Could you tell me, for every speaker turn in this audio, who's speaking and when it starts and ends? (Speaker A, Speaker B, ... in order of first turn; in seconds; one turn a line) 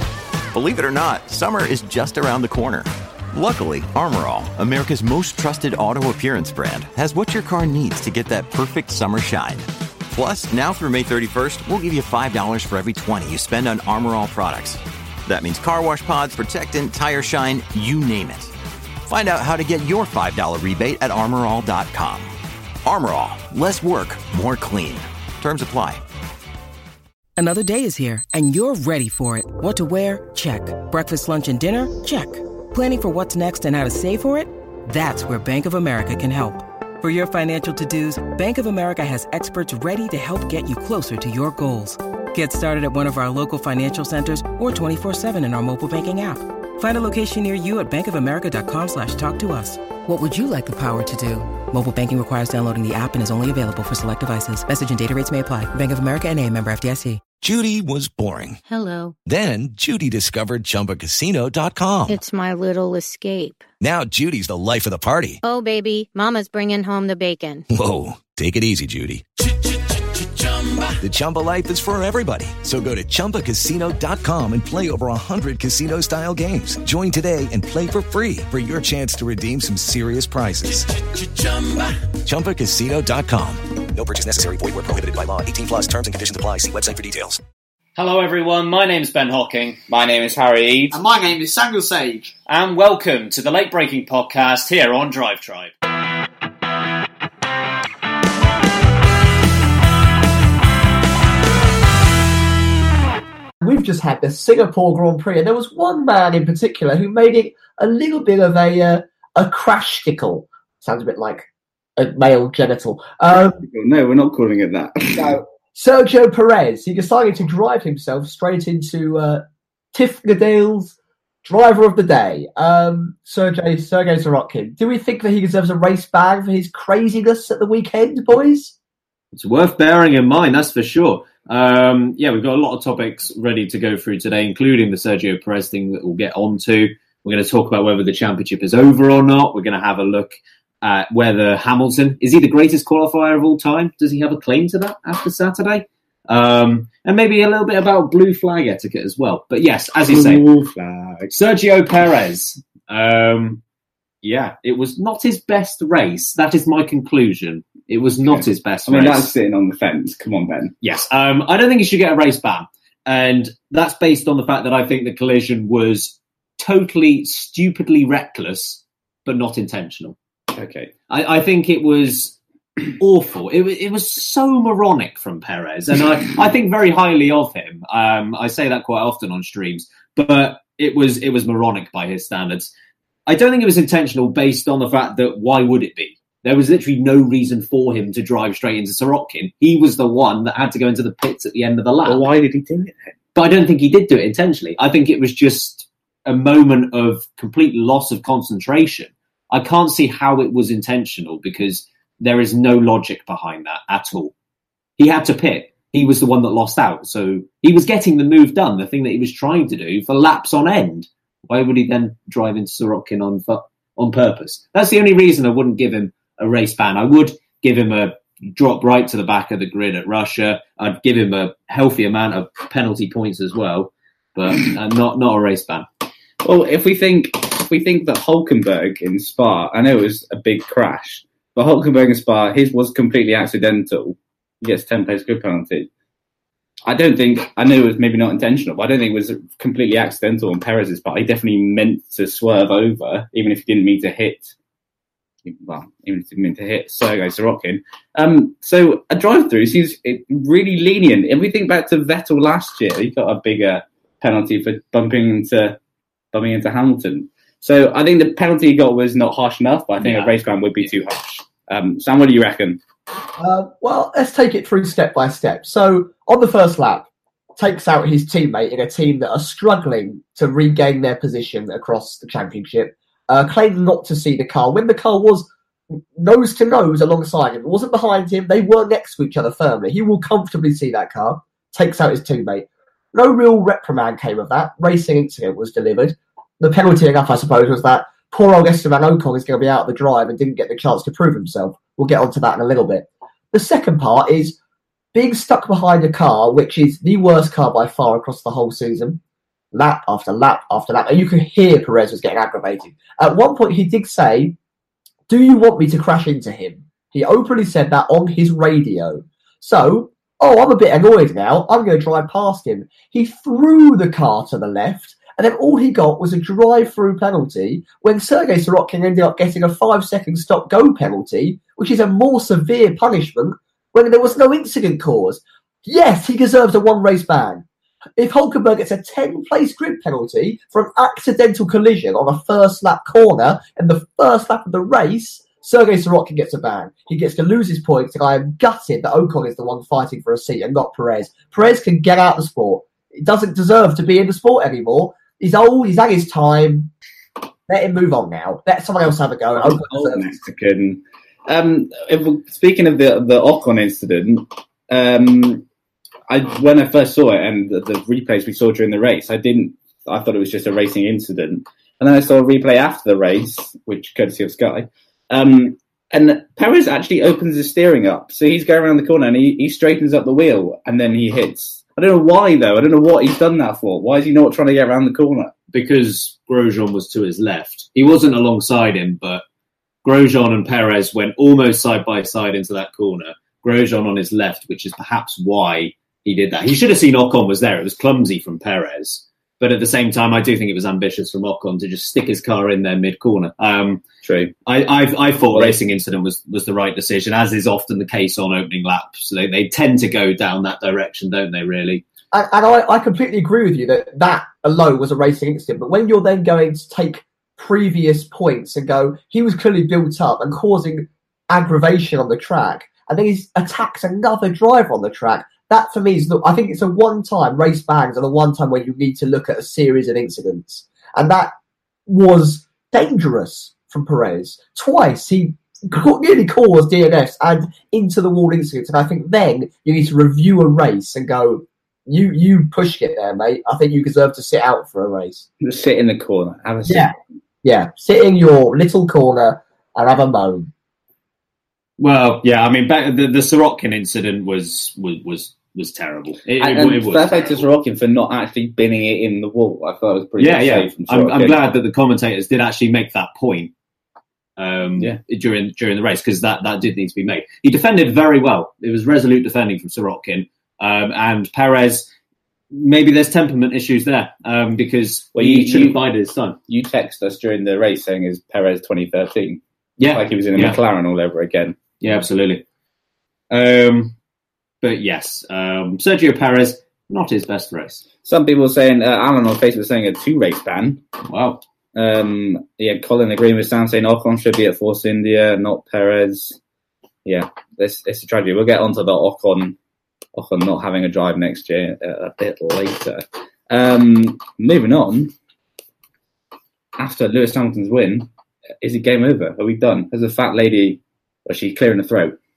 Speaker A: 0.5-18.5
Speaker A: 19.1-22.3
Speaker A: 22.8-26.0
Speaker B: 27.4-57.2
Speaker C: 57.4-58.6
Speaker D: 58.7-59.1
Speaker C: 59.2-62.2
Speaker D: 62.1-63.7
Speaker C: 63.8-65.4
Speaker D: 65.4-67.7
Speaker C: 67.7-69.7
Speaker C: 70.4-83.9
Speaker E: 84.0-87.4
Speaker F: 88.0-89.8
Speaker G: 89.9-91.0
Speaker H: 90.9-92.3
Speaker F: 92.5-95.7
Speaker H: 103.6-113.6
Speaker G: 113.6-115.4
Speaker H: 115.2-128.7
Speaker F: 129.3-150.4
Speaker G: 150.0-151.3
Speaker F: 151.3-153.6
Speaker F: 154.2-159.3
Speaker G: 158.3-160.7
Speaker F: 160.8-170.2
Speaker G: 170.5-170.9
Speaker F: 171.1-172.4
Speaker F: 173.0-182.7
Speaker F: 183.3-192.2
Speaker G: 192.0-193.1
Speaker F: 193.3-204.3
Speaker F: 205.0-225.8
Speaker G: 226.4-235.9
Speaker G: 236.8-244.5
Speaker G: 245.4-255.8
Speaker G: 256.3-262.8
Speaker F: 260.0-260.4
Speaker H: 263.4-267.1
Speaker H: 267.6-275.5
Speaker H: 276.1-294.6
Speaker H: 295.1-299.2
Speaker H: 299.7-304.6
Speaker H: 305.3-327.6
Speaker H: 328.2-346.9
Speaker H: 347.7-350.3
Speaker G: 349.6-355.6
Speaker G: 356.3-375.5
Speaker F: 375.7-379.4
Speaker F: 380.0-394.1
Speaker G: 394.2-394.5
Speaker F: 394.6-402.0
Speaker G: 395.5-395.8
Speaker H: 402.3-421.5
Speaker H: 422.1-435.5
Speaker G: 435.6-437.1
Speaker H: 436.8-437.1
Speaker H: 437.6-440.7
Speaker F: 442.0-447.4
Speaker G: 446.5-451.6
Speaker F: 450.4-453.7
Speaker F: 454.6-462.1
Speaker F: 462.7-466.6
Speaker G: 465.3-466.0
Speaker G: 466.7-471.8
Speaker F: 470.0-470.8
Speaker F: 472.0-472.6
Speaker F: 473.5-474.1
Speaker F: 474.8-478.0
Speaker G: 478.2-481.0
Speaker F: 481.3-481.6
Speaker G: 481.9-486.6
Speaker G: 487.2-489.8
Speaker G: 490.3-495.3
Speaker G: 497.0-498.3
Speaker G: 498.8-502.4